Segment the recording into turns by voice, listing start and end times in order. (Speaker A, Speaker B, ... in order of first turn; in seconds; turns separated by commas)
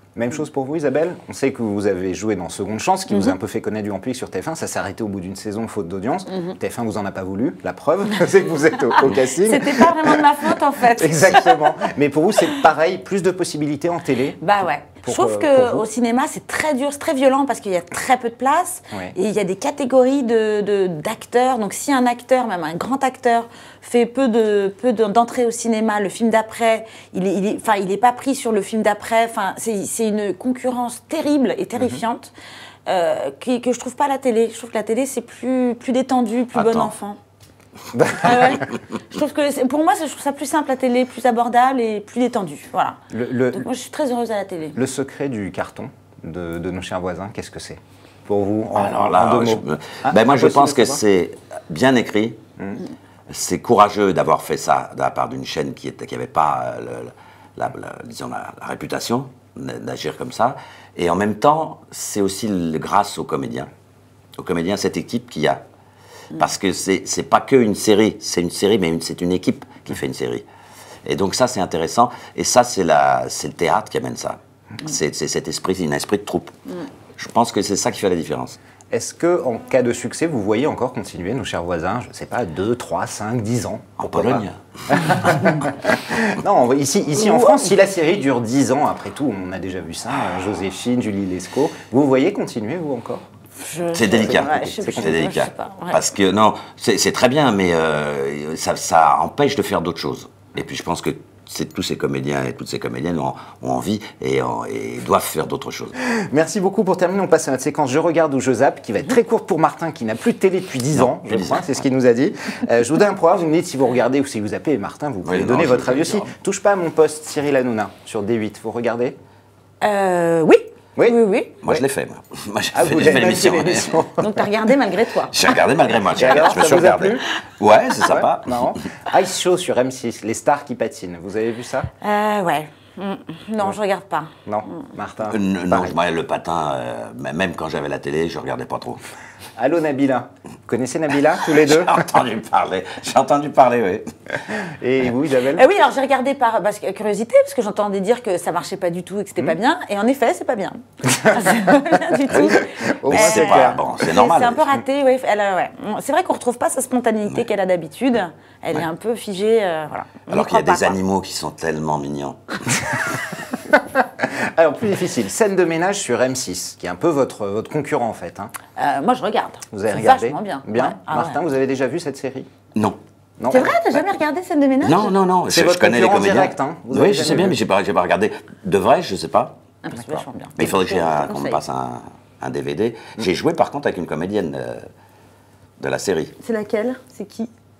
Speaker A: 0.1-15.9, Speaker B: 9.4-11.8, Speaker B: 14.4-32.3, Speaker B: 32.9-37.2, Speaker C: 36.5-36.9, Speaker A: 37.9-38.6, Speaker B: 38.2-43.0, Speaker A: 43.1-43.7, Speaker B: 43.5-44.8, Speaker A: 44.8-51.0, Speaker C: 48.7-52.4, Speaker C: 53.3-63.7, Speaker C: 64.4-65.6, Speaker C: 66.3-70.4, Speaker C: 71.0-76.5, Speaker C: 77.2-78.6, Speaker A: 78.9-93.2, Speaker C: 84.0-85.4, Speaker B: 87.2-87.6, Speaker B: 93.6-96.0, Speaker C: 93.9-105.9, Speaker A: 94.2-95.2, Speaker A: 106.0-119.2, Speaker C: 110.9-111.8, Speaker C: 115.2-116.3, Speaker B: 119.8-121.6, Speaker A: 121.0-121.8, Speaker C: 121.6-124.0, Speaker A: 122.7-124.5, Speaker B: 124.2-125.6, Speaker C: 125.3-128.7, Speaker A: 126.1-127.2, Speaker A: 128.0-131.9, Speaker B: 132.0-134.3, Speaker A: 134.4-135.9, Speaker C: 135.2-139.0, Speaker A: 139.6-142.1, Speaker C: 141.4-144.1, Speaker A: 144.6-145.6, Speaker B: 145.5-161.0, Speaker A: 151.2-151.7, Speaker C: 152.3-154.6, Speaker A: 152.4-153.8, Speaker C: 160.3-163.2, Speaker A: 163.9-168.5, Speaker B: 168.8-171.4, Speaker A: 169.7-172.5, Speaker A: 173.4-173.7, Speaker B: 173.5-175.1, Speaker C: 174.8-179.5, Speaker A: 175.5-177.6, Speaker B: 179.8-181.6, Speaker C: 180.6-184.8, Speaker C: 185.8-186.3, Speaker B: 186.4-187.5